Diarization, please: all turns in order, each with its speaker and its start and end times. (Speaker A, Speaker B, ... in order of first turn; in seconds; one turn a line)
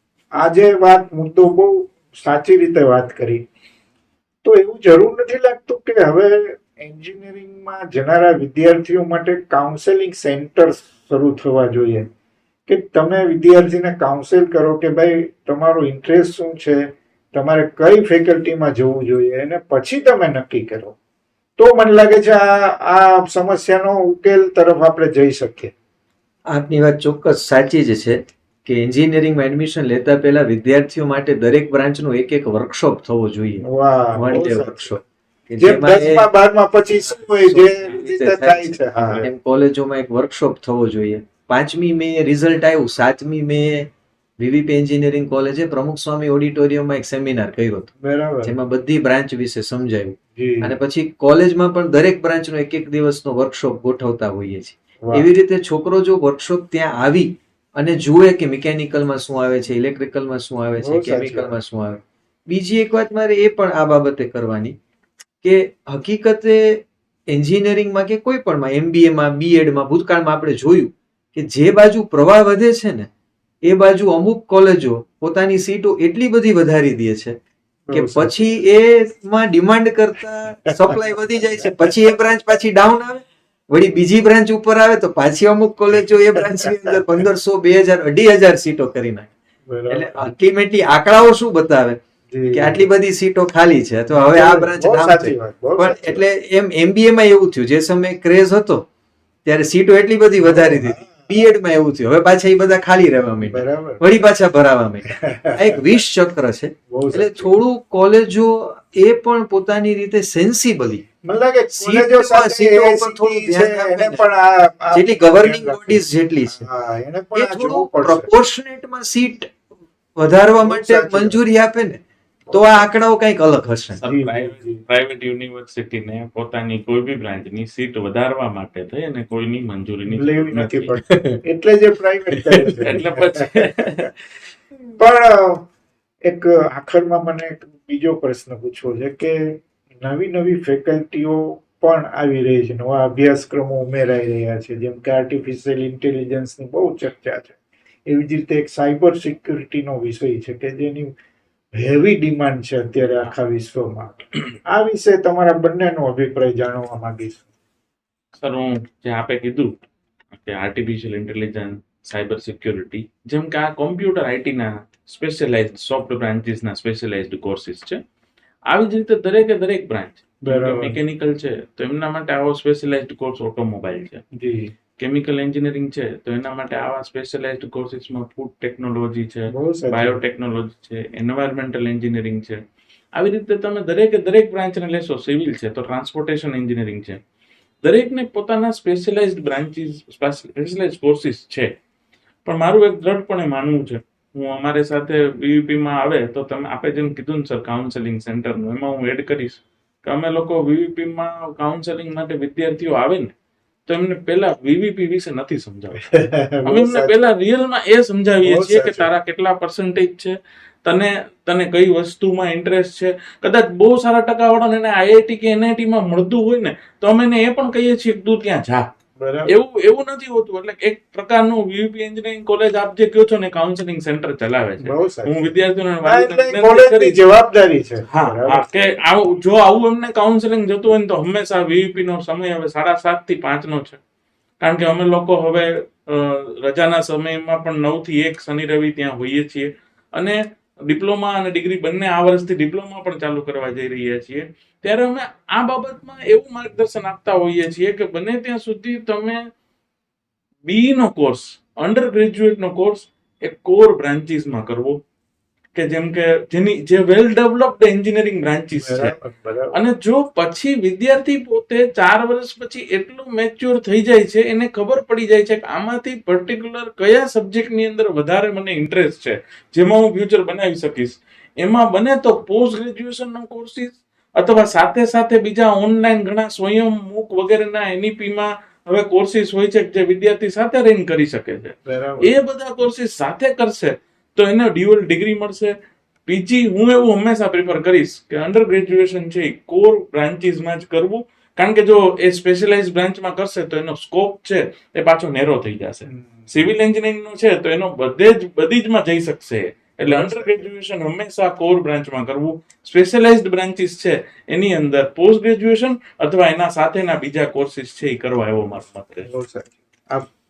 Speaker A: 0.4-3.4
Speaker A: 4.4-12.1
Speaker A: 12.7-20.9
Speaker A: 21.6-25.7
Speaker B: 26.5-33.6
Speaker A: 33.6-34.9
Speaker B: 34.1-36.3
Speaker A: 35.6-39.3
Speaker B: 37.4-47.9
Speaker A: 48.0-48.5
Speaker B: 48.4-64.8
Speaker A: 50.3-50.8
Speaker A: 55.0-55.3
Speaker A: 60.8-61.5
Speaker B: 65.4-73.1
Speaker B: 73.6-77.4
Speaker A: 77.9-78.3
Speaker B: 77.9-89.3
Speaker A: 86.5-87.0
Speaker A: 89.7-90.3
Speaker B: 89.9-92.0
Speaker A: 92.3-92.8
Speaker B: 92.5-98.8
Speaker A: 94.2-96.2
Speaker B: 99.4-111.1
Speaker A: 100.4-101.3
Speaker A: 103.5-104.0
Speaker A: 105.1-106.0
Speaker A: 106.9-107.5
Speaker A: 111.2-118.3
Speaker B: 111.7-114.2
Speaker B: 114.9-116.6
Speaker B: 117.3-119.5
Speaker B: 120.2-124.0
Speaker A: 120.6-121.4
Speaker A: 122.5-122.8
Speaker C: 124.0-130.9
Speaker A: 124.0-124.8
Speaker A: 130.1-133.9
Speaker B: 131.1-131.4
Speaker B: 132.3-132.9
Speaker C: 132.8-134.1
Speaker A: 135.0-135.7
Speaker A: 136.2-147.5
Speaker A: 148.1-151.1
Speaker A: 151.7-157.4
Speaker C: 158.3-159.7
Speaker C: 160.3-168.0
Speaker C: 168.7-174.2
Speaker A: 170.4-171.0
Speaker A: 174.3-174.7
Speaker C: 175.0-182.6
Speaker A: 179.5-180.2
Speaker C: 183.2-187.2
Speaker C: 187.8-191.7
Speaker C: 192.4-203.3
Speaker C: 203.9-206.0
Speaker A: 205.9-207.2
Speaker C: 206.7-210.3
Speaker A: 208.4-209.1
Speaker C: 210.8-218.8
Speaker A: 219.2-219.5
Speaker C: 219.5-227.2
Speaker A: 224.8-225.5
Speaker A: 226.0-228.7
Speaker C: 228.1-234.0
Speaker C: 234.6-249.5
Speaker C: 250.6-255.0
Speaker C: 255.7-259.1
Speaker A: 258.7-259.8
Speaker C: 259.7-285.7
Speaker A: 281.9-282.3
Speaker C: 286.2-309.2
Speaker A: 296.1-296.5
Speaker A: 300.1-300.7
Speaker A: 309.2-310.3